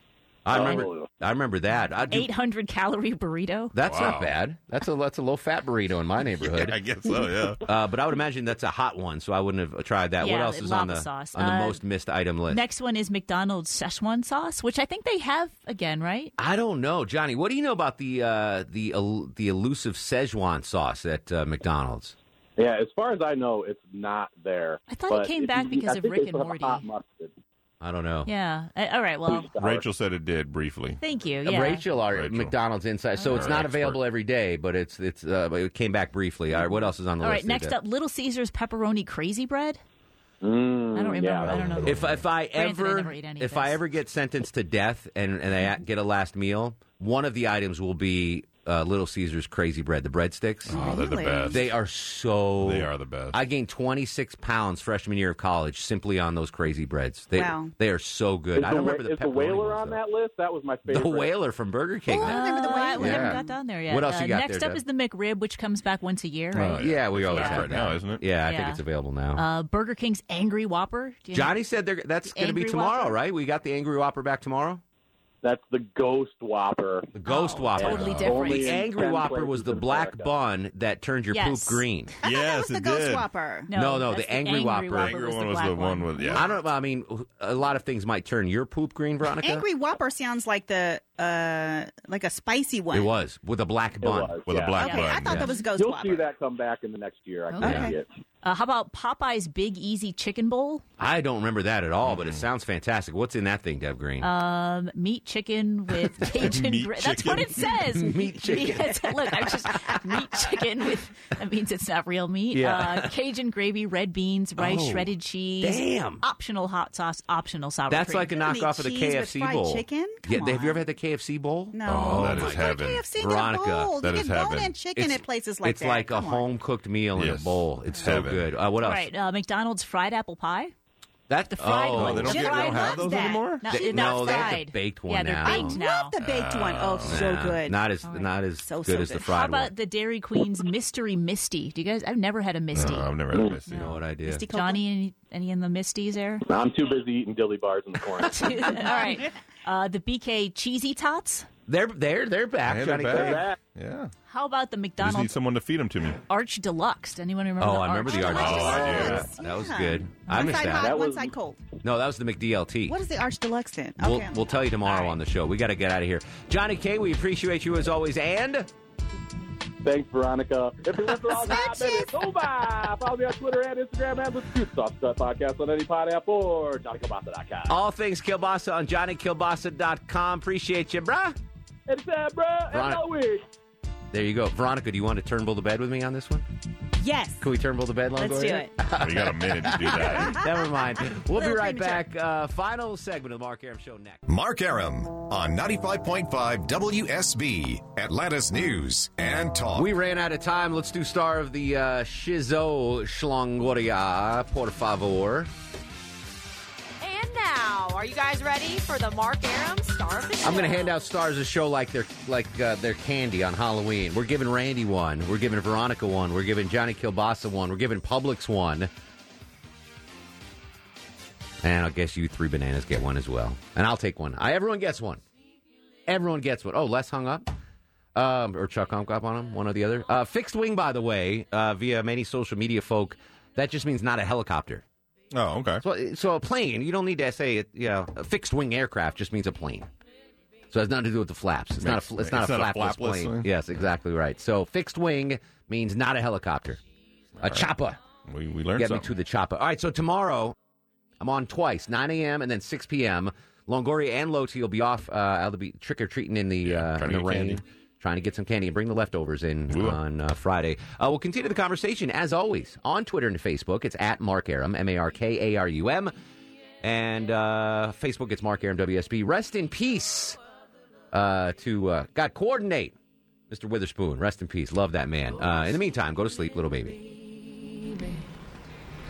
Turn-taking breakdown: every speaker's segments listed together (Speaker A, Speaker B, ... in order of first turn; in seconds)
Speaker A: 0.5-2.3, 3.7-6.8, 7.6-12.6, 16.4-22.1, 27.8-28.3, 31.4-37.7, 41.8-50.8, 51.5-60.0, 60.9-64.8, 66.5-69.4, 71.3-74.8, 77.1-82.1, 83.7-85.1, 86.3-89.7, 92.9-94.3, 97.6-97.9, 101.0-104.3, 107.9-109.9, 112.5-113.1, 114.6-115.1, 115.6-116.2, 117.9-122.6, 123.2-123.9, 124.9-129.1, 131.3-132.6, 133.7-135.8, 137.1-139.7, 143.7-144.4, 151.7-153.4, 157.6-161.0, 161.8-163.0, 164.0-168.7, 177.7-181.4, 182.7-183.0, 184.1-186.4, 187.4-194.2, 199.8-205.5, 210.4-218.9, 221.6-225.2, 226.1-227.5, 228.1-234.8, 235.8-239.9, 240.7-246.8, 247.4-248.0, 248.8-250.6, 251.2-266.1, 266.8-270.4, 271.1-272.9, 273.5-277.0
Speaker B: 0.5-1.1, 22.6-27.3, 29.2-29.9, 40.4-41.5, 58.5-61.3, 75.4-77.1, 77.8-80.3, 94.0-94.8, 95.7-98.1, 143.3-143.6, 146.4-148.6, 153.1-153.6, 160.7-161.3, 169.8-177.7, 181.9-183.4
Speaker C: 0.5-0.9, 2.1-3.7, 10.2-11.8, 12.5-16.3, 24.9-26.9, 28.3-29.5, 31.0-31.8, 33.2-33.5, 37.2-39.8, 40.9-43.8, 62.2-67.8, 68.5-68.8, 69.3-71.6, 72.2-73.2, 77.2-78.9, 81.3-81.9, 83.7-86.4, 94.8-95.6, 97.5-97.9, 98.4-100.8, 104.2-118.4, 128.8-130.7, 131.5-136.1, 139.3-143.9, 144.5-146.4, 148.2-151.5, 154.3-155.3, 156.3-158.9
Speaker D: 3.8-4.3, 6.4-7.6, 29.6-31.0, 32.1-32.5, 33.2-34.0, 41.4-42.2, 50.7-51.7, 52.6-53.4, 66.6-68.2, 82.2-83.3, 84.9-86.5, 94.4-95.6, 102.1-102.4, 106.2-107.8, 121.8-123.1, 123.9-124.8, 127.2-128.5, 131.8-133.7, 135.5-137.5, 142.7-143.9, 152.7-154.1, 155.0-156.2, 158.2-159.3, 160.3-160.7, 189.0-190.4, 235.3-235.8, 241.8-243.5, 247.4-247.7, 248.3-249.1, 256.6-257.6, 259.7-260.0
Speaker E: 50.7-51.6, 57.3-57.7, 62.1-63.5, 82.2-83.7, 89.4-93.1, 94.8-96.2, 97.6-97.9, 118.3-120.8, 121.7-126.5, 132.3-134.6, 135.4-137.8, 138.6-139.3, 144.3-144.8, 158.1-161.6, 162.9-165.2, 171.1-172.2, 187.0-187.5, 188.2-188.7, 190.0-192.0
Speaker F: 194.3-199.9
Speaker G: 207.0-210.9